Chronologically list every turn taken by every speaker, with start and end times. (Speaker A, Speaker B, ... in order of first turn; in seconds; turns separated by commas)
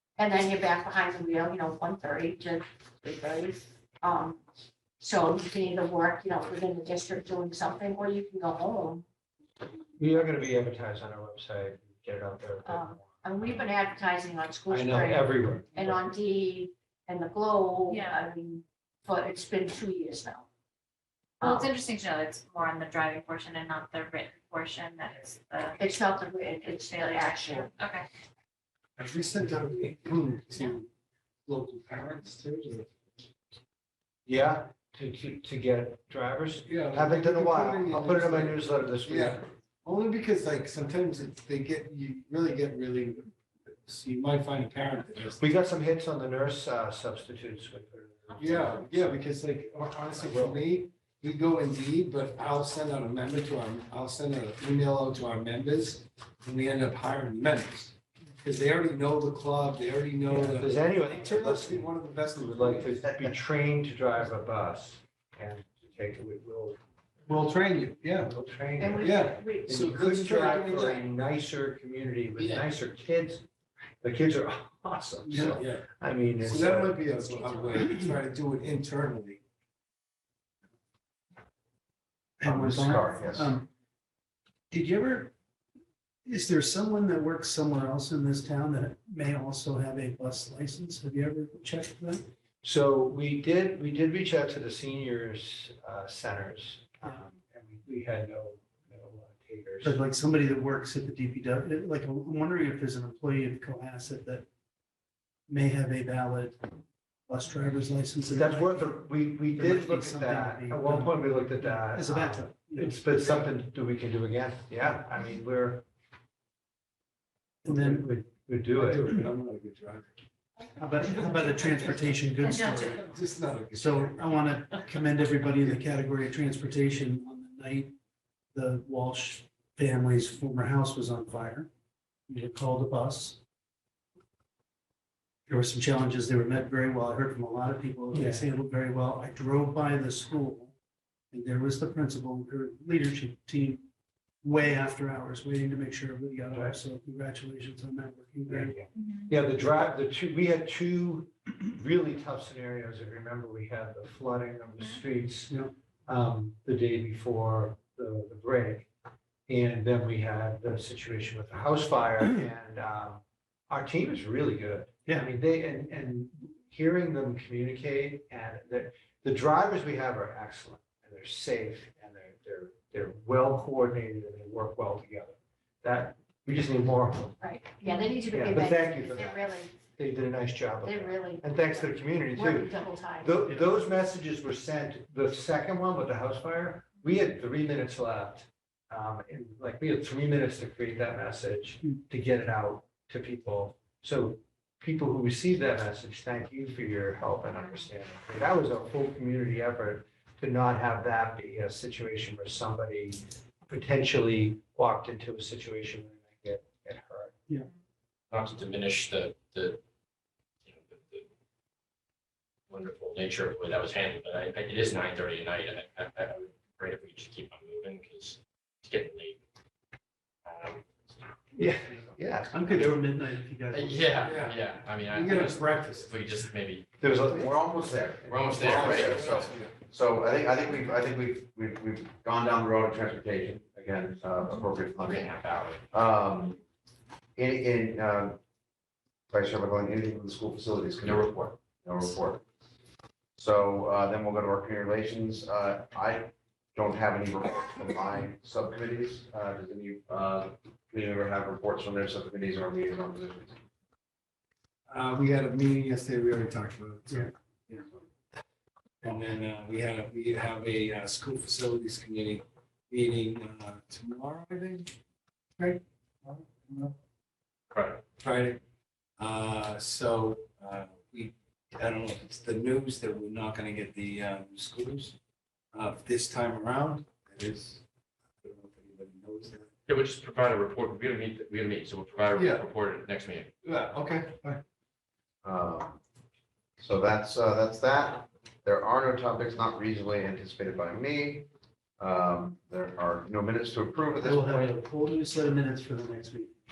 Speaker A: 0.2-4.4, Speaker A: 5.0-9.0, Speaker B: 10.0-13.1, Speaker A: 12.6-20.5, Speaker B: 14.7-16.1, Speaker C: 17.9-18.2, Speaker A: 21.4-21.7, Speaker C: 21.4-25.8, Speaker A: 25.8-27.7, Speaker C: 26.7-28.1, Speaker D: 29.0-30.9, Speaker D: 31.4-33.2, Speaker B: 34.2-39.5, Speaker D: 36.6-45.4, Speaker B: 45.4-49.2, Speaker C: 48.3-48.6, Speaker D: 48.4-63.3, Speaker B: 50.1-50.6, Speaker B: 60.3-66.8, Speaker D: 67.3-68.3, Speaker B: 68.2-69.1, Speaker A: 68.8-71.1, Speaker D: 69.0-71.0, Speaker B: 69.7-73.4, Speaker B: 74.0-77.0, Speaker D: 75.3-75.8, Speaker D: 76.4-79.4, Speaker E: 82.4-83.7, Speaker B: 82.4-83.3, Speaker E: 84.7-85.3, Speaker E: 86.2-92.2, Speaker B: 92.6-100.0, Speaker E: 99.8-104.5, Speaker E: 105.5-106.6, Speaker E: 107.3-113.5, Speaker B: 108.3-115.8, Speaker E: 117.6-118.1, Speaker B: 117.7-119.1, Speaker D: 118.7-120.1, Speaker E: 120.8-123.0, Speaker D: 121.0-122.2, Speaker C: 122.4-122.9, Speaker D: 122.8-125.0, Speaker E: 123.7-127.9, Speaker D: 125.6-125.8, Speaker E: 128.5-131.7, Speaker E: 132.3-133.4, Speaker E: 135.5-140.7, Speaker B: 138.1-138.4, Speaker E: 141.3-143.8, Speaker E: 144.4-148.8, Speaker B: 146.5-146.8, Speaker B: 148.5-155.5, Speaker E: 155.5-155.7, Speaker B: 156.1-158.9, Speaker B: 159.5-177.4, Speaker A: 177.4-179.7, Speaker B: 178.3-207.4, Speaker A: 180.8-183.9, Speaker F: 208.3-209.8, Speaker F: 210.6-211.3, Speaker F: 212.7-219.4, Speaker F: 220.4-221.3, Speaker E: 221.6-224.4, Speaker B: 222.0-223.0, Speaker F: 223.7-226.8, Speaker D: 224.2-226.2, Speaker G: 227.0-236.6, Speaker F: 228.2-229.5, Speaker D: 228.5-229.7, Speaker F: 235.0-235.8, Speaker G: 237.3-238.4, Speaker G: 239.3-242.4, Speaker F: 241.0-241.5, Speaker G: 243.4-253.6, Speaker D: 254.9-258.0, Speaker D: 259.0-264.9, Speaker D: 265.6-266.9, Speaker F: 267.7-268.0, Speaker D: 268.2-268.6, Speaker D: 269.2-275.1, Speaker D: 275.7-277.8, Speaker D: 278.4-279.7, Speaker F: 279.9-283.5, Speaker D: 282.3-282.7, Speaker D: 283.6-284.6, Speaker G: 285.4-286.0, Speaker G: 286.8-291.5, Speaker G: 292.0-294.7, Speaker E: 294.2-296.5